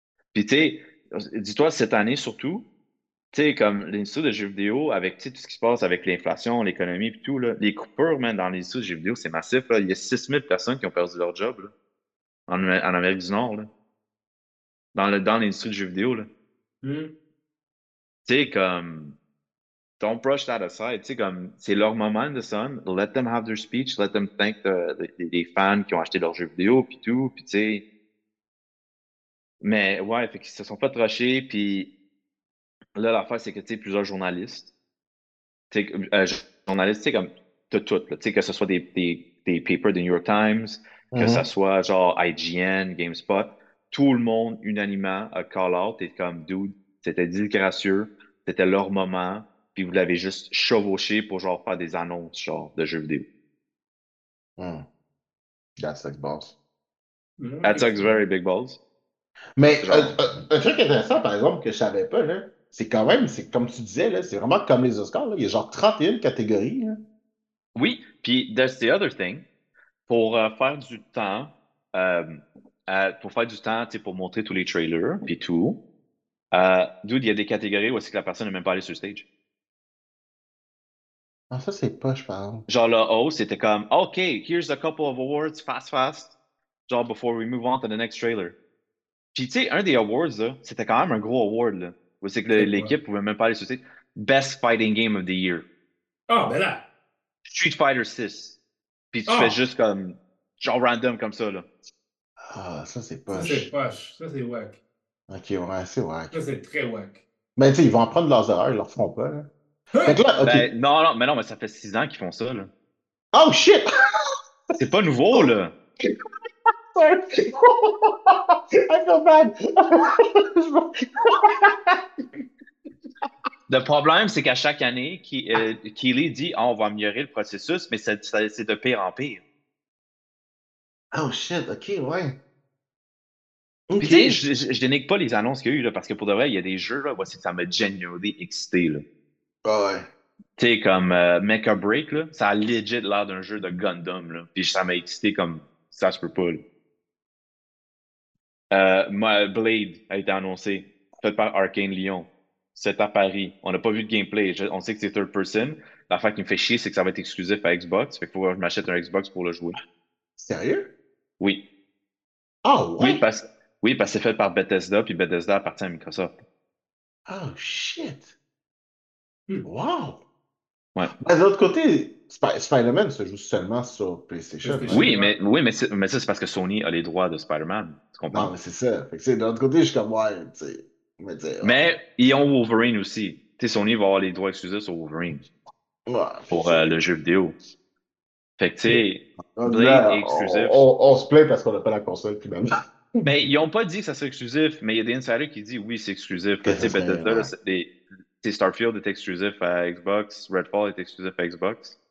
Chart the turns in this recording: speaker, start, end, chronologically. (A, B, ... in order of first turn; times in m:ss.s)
0:00.3-0:02.7 A
0:03.3-0:11.7 A
0:12.5-0:13.7 A
0:14.9-0:16.3 A
0:16.8-0:17.2 B
0:18.2-0:19.2 A
0:20.0-0:27.8 A
0:29.6-0:31.9 A
0:32.9-0:34.7 A
0:35.7-0:53.2 A
0:41.1-0:41.5 C
0:54.6-0:54.8 C
0:55.8-0:56.6 C
0:57.4-0:58.2 B
0:57.6-0:58.8 A
0:59.6-1:07.0 C
0:59.7-1:00.2 A
1:07.7-1:09.4 A
1:10.1-1:15.8 A
1:16.5-1:19.2 A
1:21.5-1:22.6 C
1:22.7-1:26.3 A
1:26.9-1:28.6 A
1:29.3-1:35.6 A
1:32.5-1:32.9 B
1:36.3-1:36.8 B
1:37.5-1:38.6 A
1:39.1-1:41.6 A
1:39.3-1:39.6 B
1:42.5-1:43.7 C
1:43.3-1:44.8 B
1:45.3-1:46.3 C
1:46.3-1:47.2 B
1:47.6-1:49.5 C
1:49.9-1:50.2 B
1:50.0-1:50.7 C
1:50.4-1:52.7 A
1:53.3-1:53.9 C
1:54.8-1:55.7 A
1:55.3-1:56.1 C
1:56.9-2:02.4 C
2:03.7-2:09.4 A
2:11.1-2:12.4 C
2:13.9-2:14.6 C
2:14.0-2:19.0 A
2:19.6-2:20.1 C
2:20.6-2:26.6 A
2:28.7-2:39.8 A
2:40.4-2:40.9 C
2:42.6-2:43.2 C
2:43.0-2:46.3 A
2:47.3-2:48.3 C
2:49.6-2:50.2 C
2:51.2-2:55.0 C
2:54.6-2:55.3 B
2:54.9-2:58.5 A
2:58.3-3:01.8 C
3:01.6-3:05.4 A
3:06.1-3:06.8 C
3:06.5-3:07.6 A
3:08.6-3:10.8 A
3:09.6-3:13.3 C
3:13.2-3:22.0 A
3:16.6-3:17.5 C